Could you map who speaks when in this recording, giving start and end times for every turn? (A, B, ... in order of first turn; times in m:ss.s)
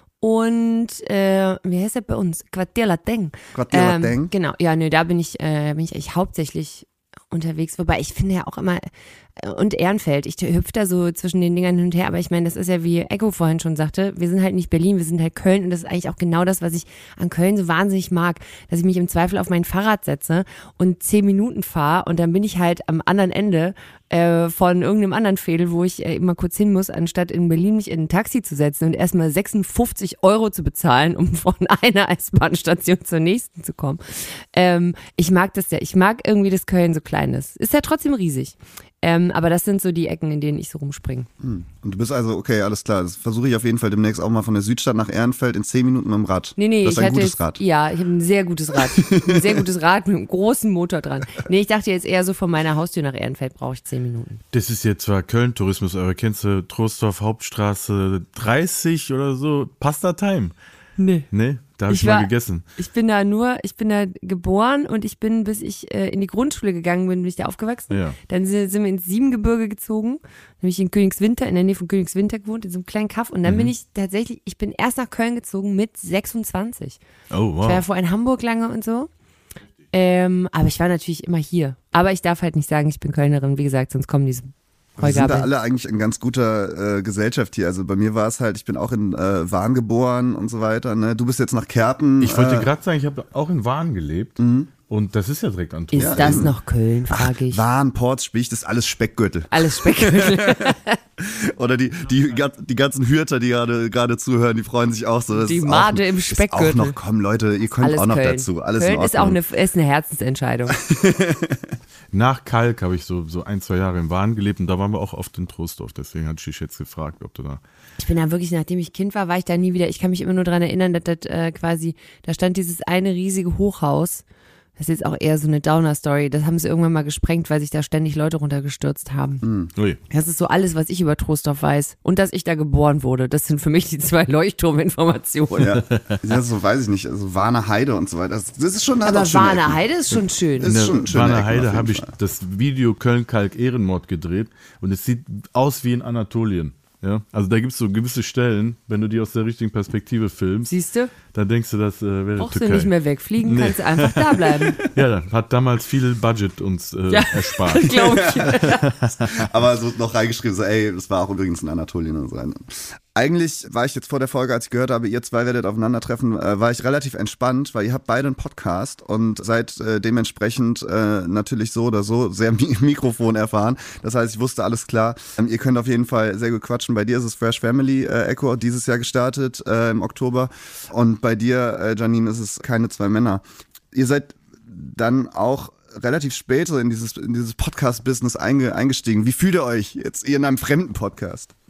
0:00.2-0:41.3 A
0:03.5-0:04.3 B
0:41.4-0:47.6 B
0:46.6-0:54.4 A
0:49.0-0:49.6 B
0:54.5-1:00.5 C
1:01.0-1:01.3 A
1:01.3-1:02.6 C
1:01.9-1:17.0 A
1:07.9-1:08.2 C
1:13.4-1:13.7 C
1:17.3-1:17.8 C
1:17.6-1:19.1 A
1:19.9-1:25.5 A
1:25.0-1:32.7 B
1:32.2-1:34.4 C
1:34.4-1:34.7 B
1:34.9-1:36.5 C
1:35.9-1:37.6 A
1:36.0-1:36.5 B
1:37.1-1:49.4 B
1:39.5-1:41.0 A
1:45.3-1:47.0 A
1:47.8-1:50.8 A
1:50.8-1:51.8 B
1:52.1-1:57.6 C
1:58.0-2:04.2 A
2:04.8-2:09.4 A
2:09.4-2:09.7 B
2:10.1-2:15.8 A
2:15.5-2:19.8 B
2:15.9-2:16.2 C
2:19.0-2:20.7 A
2:20.6-2:22.1 B
2:20.6-2:30.7 C
2:30.7-2:31.1 A
2:31.3-2:39.5 C
2:32.4-2:34.8 A
2:37.1-2:38.9 A
2:37.8-2:38.7 B
2:39.2-3:11.5 B